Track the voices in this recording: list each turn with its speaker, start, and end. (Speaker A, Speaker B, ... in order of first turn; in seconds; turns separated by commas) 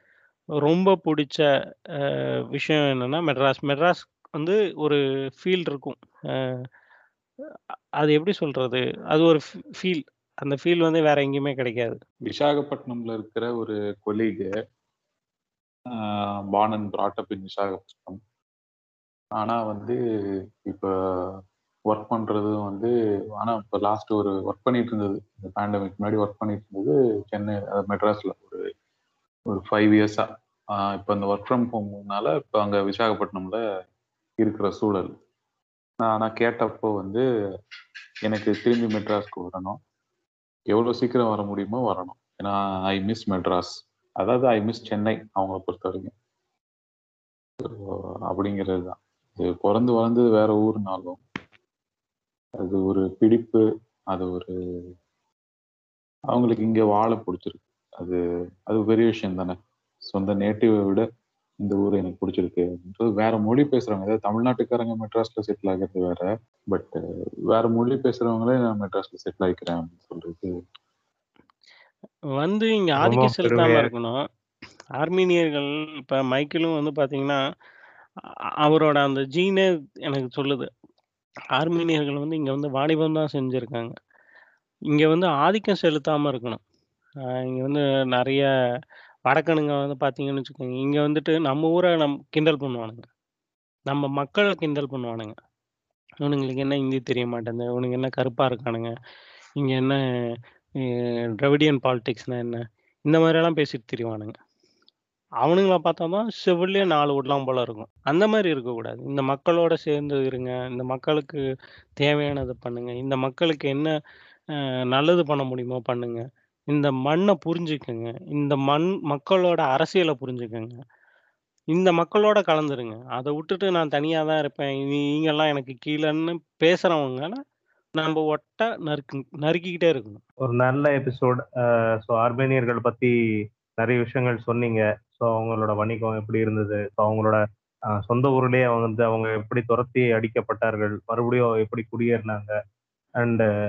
Speaker A: 0.6-1.4, Speaker A: 2.0-6.5, Speaker A: 8.0-12.0, Speaker B: 12.2-14.5, Speaker B: 15.9-18.2, Speaker B: 19.4-20.0, Speaker B: 20.6-21.4, Speaker B: 21.9-28.6, Speaker B: 29.5-33.6, Speaker B: 34.4-35.1, Speaker B: 36.0-37.2, Speaker B: 38.2-39.8, Speaker B: 40.7-46.1, Speaker B: 47.6-51.2, Speaker B: 52.6-54.5, Speaker B: 56.3-59.5, Speaker B: 60.1-61.0, Speaker B: 61.6-66.9, Speaker B: 67.5-70.5, Speaker A: 72.4-74.2, Speaker C: 73.0-73.9, Speaker A: 75.0-77.4, Speaker A: 78.6-80.7, Speaker A: 81.6-83.9, Speaker A: 84.9-86.6, Speaker A: 87.5-88.5, Speaker A: 89.3-93.0, Speaker A: 93.9-95.3, Speaker A: 96.2-98.9, Speaker A: 99.6-100.0, Speaker A: 101.4-104.3, Speaker A: 105.4-111.4, Speaker A: 112.0-113.9, Speaker A: 114.9-120.8, Speaker A: 121.7-127.4, Speaker A: 128.0-130.2, Speaker C: 130.4-131.4, Speaker C: 132.0-133.1, Speaker C: 133.8-137.4, Speaker C: 138.1-142.5, Speaker C: 143.2-143.4